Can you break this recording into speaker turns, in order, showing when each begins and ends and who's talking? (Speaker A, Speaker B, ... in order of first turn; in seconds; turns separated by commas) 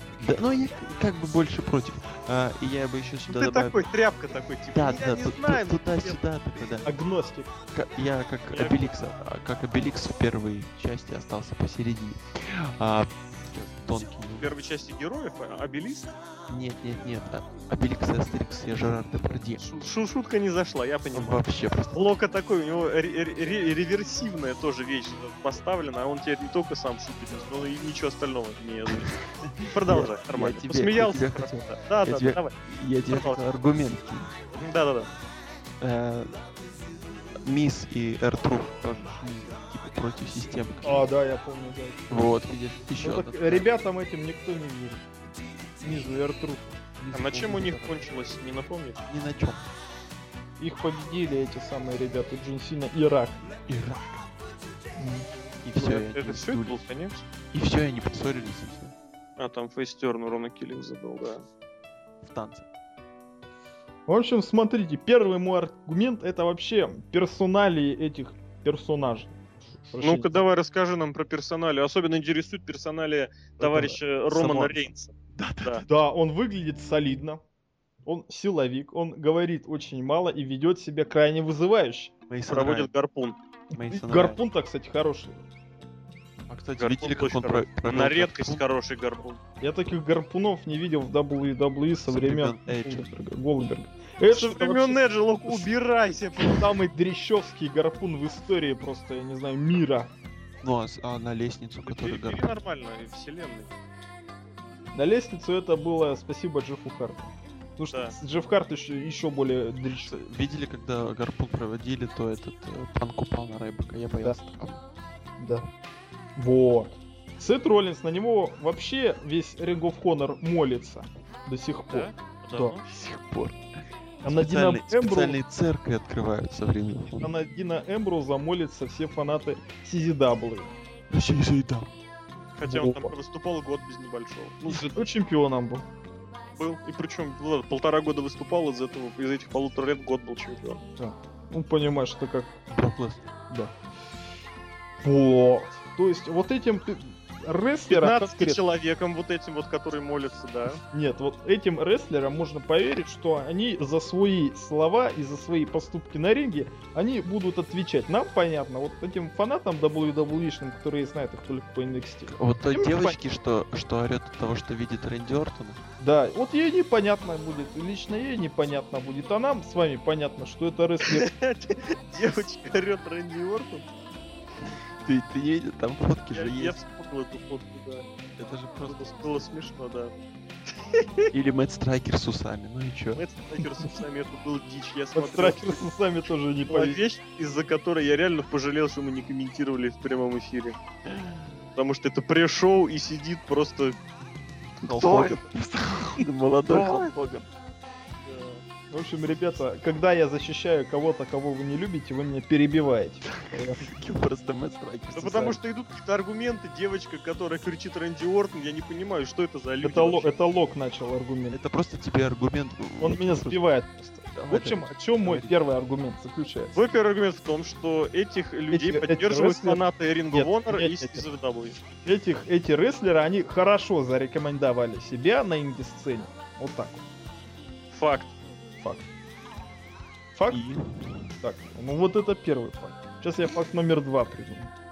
Speaker A: 0.2-3.9, Speaker B: 3.3-6.2, Speaker A: 4.7-6.9, Speaker C: 6.8-7.5, Speaker A: 7.7-14.5, Speaker B: 8.5-8.9, Speaker B: 14.4-16.1, Speaker A: 16.5-19.6, Speaker B: 19.6-21.4, Speaker A: 21.1-22.0, Speaker B: 21.9-32.5, Speaker A: 28.9-34.3, Speaker B: 33.1-33.4, Speaker B: 34.5-35.1, Speaker A: 35.8-36.4, Speaker A: 37.4-41.1, Speaker C: 40.8-42.3, Speaker A: 42.1-43.7, Speaker C: 43.0-45.0, Speaker C: 45.8-46.8, Speaker A: 47.0-48.1, Speaker B: 47.1-49.0, Speaker A: 49.1-49.7, Speaker C: 50.6-53.5, Speaker A: 53.7-54.3, Speaker C: 55.0-55.3, Speaker A: 55.6-56.9, Speaker B: 55.8-57.2, Speaker A: 57.5-59.0, Speaker B: 59.4-61.5, Speaker A: 62.2-62.7, Speaker C: 64.1-70.4, Speaker B: 70.0-75.1, Speaker A: 73.6-75.9, Speaker C: 75.9-77.4, Speaker C: 78.1-82.1, Speaker A: 82.3-82.9, Speaker B: 82.5-83.4, Speaker A: 83.7-84.4, Speaker C: 83.7-85.4, Speaker A: 86.5-88.6, Speaker B: 86.8-89.4, Speaker C: 89.6-95.7, Speaker A: 92.1-93.1, Speaker B: 94.3-96.9, Speaker C: 96.4-100.1, Speaker A: 100.6-102.5, Speaker B: 101.9-103.7, Speaker C: 104.9-110.2, Speaker A: 110.1-114.8, Speaker C: 115.4-115.7, Speaker C: 116.4-122.8, Speaker B: 121.9-122.8, Speaker A: 122.8-123.6, Speaker C: 124.2-125.4, Speaker A: 124.2-127.3, Speaker C: 127.2-130.8, Speaker A: 131.1-131.9, Speaker B: 132.6-135.0, Speaker C: 132.7-133.1, Speaker C: 134.7-135.9, Speaker B: 136.6-140.8, Speaker C: 141.0-142.6, Speaker A: 142.7-143.3, Speaker C: 145.0-148.6, Speaker B: 147.9-150.8, Speaker C: 150.9-163.2, Speaker A: 162.3-165.8, Speaker C: 166.0-171.3, Speaker B: 171.0-173.9, Speaker A: 175.0-176.8, Speaker B: 176.3-178.1, Speaker A: 178.4-179.5, Speaker B: 178.8-180.1, Speaker B: 180.9-181.3, Speaker A: 181.3-183.2, Speaker B: 183.2-185.8, Speaker C: 185.2-187.0, Speaker B: 186.7-190.8, Speaker B: 191.8-194.0, Speaker A: 194.8-197.5, Speaker B: 194.8-195.4, Speaker B: 196.7-197.2, Speaker B: 198.2-198.6, Speaker C: 198.9-203.8, Speaker A: 203.5-205.6, Speaker B: 205.2-210.3, Speaker C: 209.8-211.6, Speaker A: 211.5-213.6, Speaker C: 213.0-216.8, Speaker A: 214.3-215.6, Speaker B: 216.8-221.8, Speaker C: 218.7-219.8, Speaker C: 220.3-221.2, Speaker C: 222.1-227.1, Speaker B: 227.9-228.3, Speaker C: 230.3-230.6, Speaker A: 230.5-231.3, Speaker C: 231.4-234.7